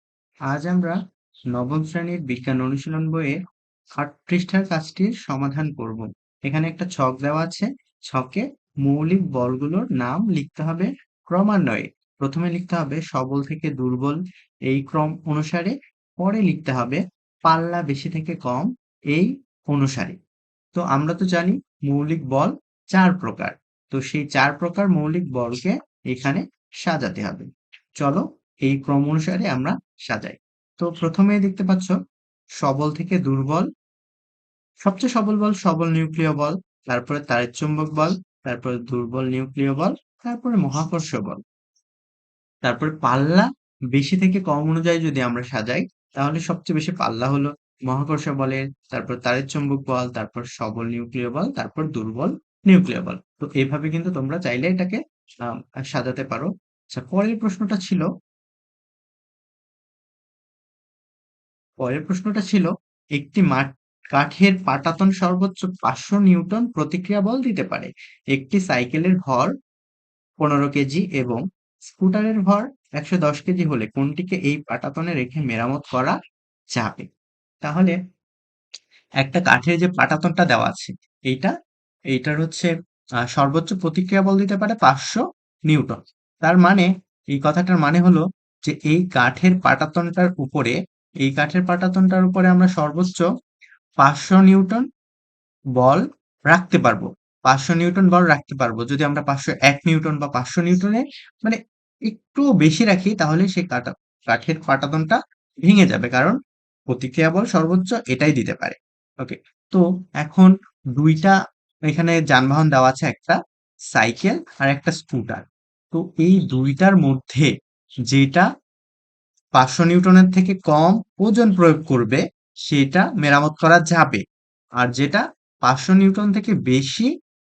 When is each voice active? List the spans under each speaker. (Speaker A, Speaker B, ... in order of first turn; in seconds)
Speaker A: 0.5-1.0, 1.6-3.4, 4.0-14.2, 14.7-20.2, 20.8-27.5, 28.0-31.9, 32.6-33.7, 34.9-41.4, 42.6-55.0, 55.9-58.1, 61.8-69.5, 70.4-76.2, 76.8-77.1, 77.6-78.0, 79.2-81.5, 82.1-82.7, 83.4-93.3, 94.0-94.8, 95.8-106.4, 106.9-111.3, 111.9-113.4, 113.9-117.5, 118.1-118.5, 119.6-124.2, 124.8-127.1